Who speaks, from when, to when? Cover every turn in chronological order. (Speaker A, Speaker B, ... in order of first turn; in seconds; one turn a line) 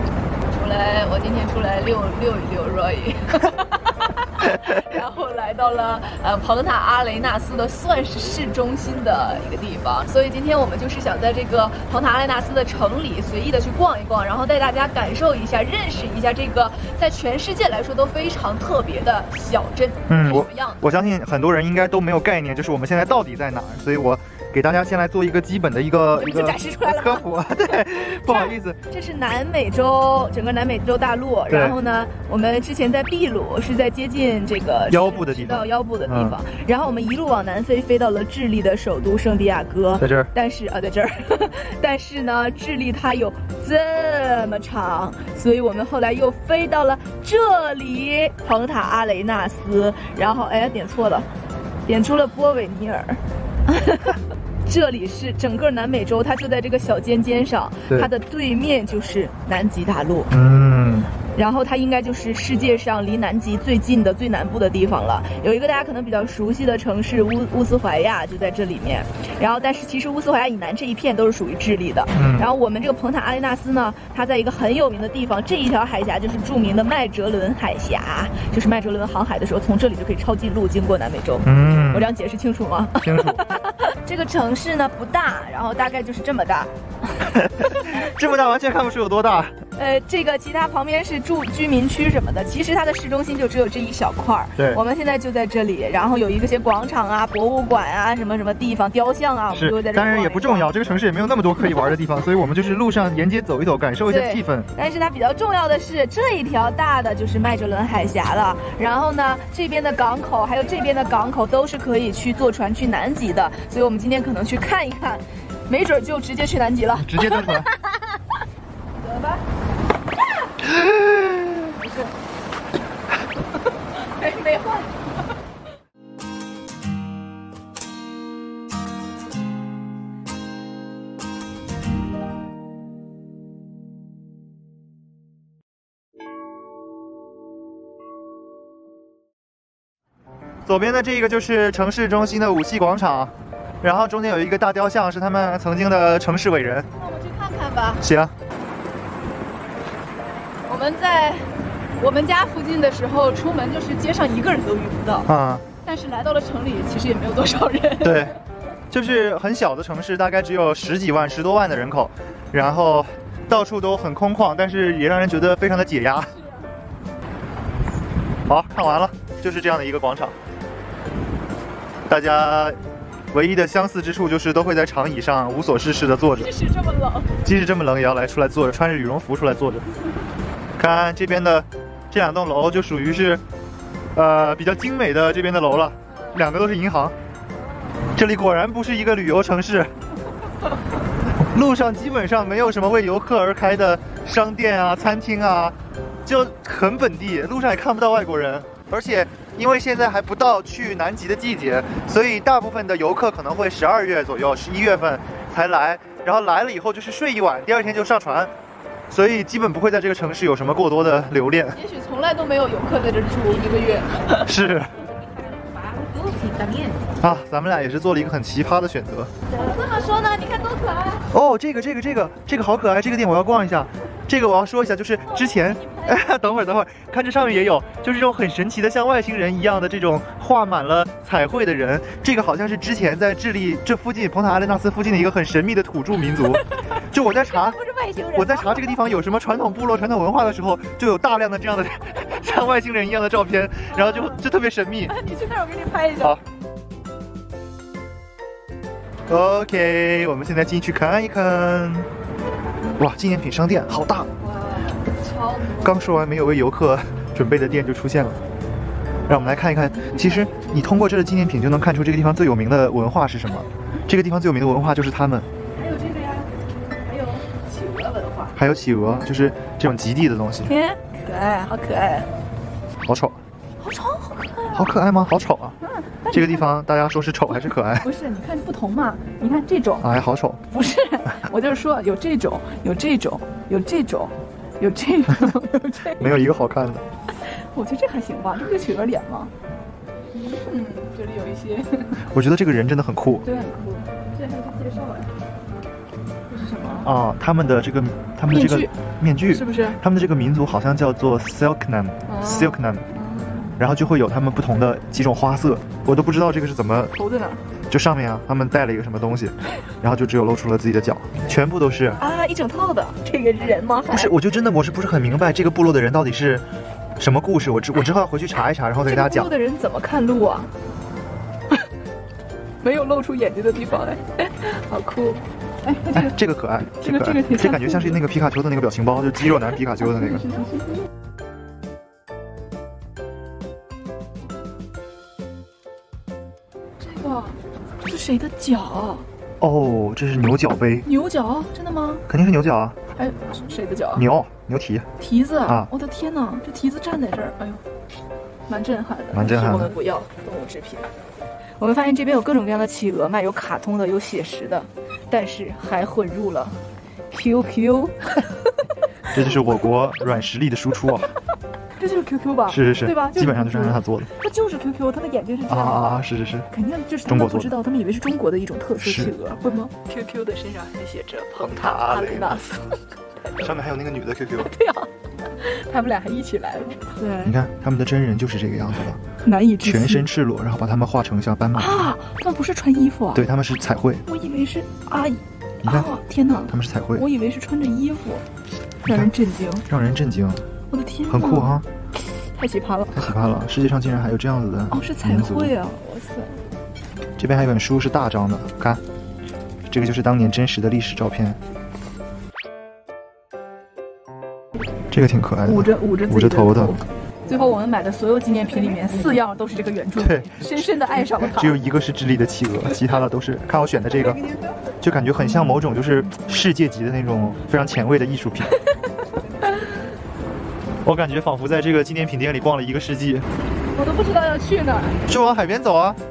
Speaker A: 0.5-20.8
Speaker B: 20.1-28.8
Speaker A: 26.1-27.2
Speaker A: 28.3-51.3
Speaker B: 31.5-31.8
Speaker B: 34.9-36.4
Speaker B: 40.0-40.3
Speaker A: 51.9-60.3
Speaker B: 60.3-61.1
Speaker A: 61.4-86.7
Speaker B: 72.1-72.5
Speaker B: 81.5-82.1
Speaker B: 83.0-83.5
Speaker B: 87.2-89.5
Speaker A: 89.8-100.7
Speaker B: 99.5-104.7
Speaker A: 104.0-118.1
Speaker B: 117.0-117.7
Speaker A: 119.0-119.4
Speaker B: 120.8-121.4
Speaker A: 121.8-122.1
Speaker A: 123.9-125.1
Speaker B: 140.7-146.9
Speaker A: 146.9-148.0
Speaker B: 148.0-148.3
Speaker A: 150.7-155.3
Speaker B: 155.3-155.6
Speaker A: 155.8-158.3
Speaker B: 158.0-158.3
Speaker B: 158.9-166.3
Speaker B: 168.5-170.3
Speaker B: 172.1-172.8
Speaker B: 173.3-176.5
Speaker A: 176.4-177.4
Speaker B: 177.4-179.8
Speaker B: 180.8-183.4
Speaker B: 184.2-187.2
Speaker B: 188.2-189.9
Speaker B: 191.5-195.8
Speaker B: 196.3-208.5
Speaker B: 209.1-211.8
Speaker A: 211.7-214.5
Speaker B: 214.4-214.9
Speaker A: 215.6-217.0
Speaker B: 217.2-219.3
Speaker A: 219.5-221.3
Speaker B: 221.3-237.8
Speaker A: 225.4-226.1
Speaker A: 237.5-238.9
Speaker B: 238.3-245.1
Speaker A: 243.9-244.4
Speaker A: 245.1-246.4
Speaker B: 249.3-252.1
Speaker B: 253.0-254.3
Speaker A: 254.4-256.1
Speaker B: 255.8-258.4
Speaker B: 259.3-265.5
Speaker A: 260.0-260.6
Speaker A: 265.8-268.6
Speaker B: 268.6-270.7
Speaker A: 270.7-272.3
Speaker B: 273.1-273.4
Speaker A: 273.8-274.9
Speaker B: 274.7-275.8
Speaker A: 275.9-276.7
Speaker B: 276.3-278.1
Speaker A: 278.0-280.1
Speaker B: 280.0-280.6
Speaker A: 280.7-286.3
Speaker B: 286.2-287.0
Speaker A: 287.4-289.5
Speaker A: 290.4-292.3
Speaker B: 292.3-293.4
Speaker A: 293.4-295.3
Speaker A: 296.5-297.1
Speaker B: 297.0-303.0
Speaker A: 298.5-298.9
Speaker A: 299.5-300.0
Speaker A: 302.3-303.7
Speaker B: 303.8-307.1
Speaker A: 307.1-307.6
Speaker B: 307.9-312.2
Speaker A: 312.2-314.3
Speaker B: 314.1-316.6
Speaker B: 317.2-319.5
Speaker A: 319.1-320.7
Speaker A: 322.8-326.4
Speaker B: 326.1-330.5
Speaker A: 327.0-328.2
Speaker A: 330.2-330.8
Speaker A: 337.0-339.3
Speaker B: 339.6-341.1
Speaker A: 341.1-342.2
Speaker B: 342.3-343.0
Speaker A: 343.1-344.2
Speaker B: 344.1-345.1
Speaker A: 345.2-347.8
Speaker B: 345.6-345.9
Speaker A: 348.7-351.1
Speaker B: 349.3-349.9
Speaker A: 351.8-356.8
Speaker A: 357.3-358.7
Speaker B: 359.3-361.3
Speaker A: 362.0-366.2
Speaker B: 362.7-364.3
Speaker B: 365.7-366.7
Speaker A: 366.7-373.0
Speaker B: 367.2-367.8
Speaker B: 369.0-369.3
Speaker B: 371.6-372.6
Speaker B: 373.6-374.7
Speaker A: 374.6-377.5
Speaker B: 377.4-379.2
Speaker A: 379.4-380.3
Speaker B: 379.8-382.1
Speaker A: 381.8-383.4
Speaker B: 383.4-384.2
Speaker A: 384.3-388.4
Speaker B: 385.8-386.1
Speaker B: 386.7-387.2
Speaker A: 389.1-389.9
Speaker B: 389.9-390.6
Speaker A: 390.9-391.7
Speaker B: 391.3-391.9
Speaker A: 392.4-393.2
Speaker B: 393.1-395.7
Speaker A: 394.9-396.6
Speaker B: 397.4-399.0
Speaker B: 399.9-401.6
Speaker B: 405.1-407.0
Speaker A: 405.6-411.8
Speaker B: 410.2-410.6
Speaker B: 411.4-414.4
Speaker A: 414.2-414.6
Speaker B: 415.0-418.7
Speaker A: 418.8-419.9
Speaker B: 421.1-423.5
Speaker A: 423.9-425.2
Speaker B: 425.3-426.2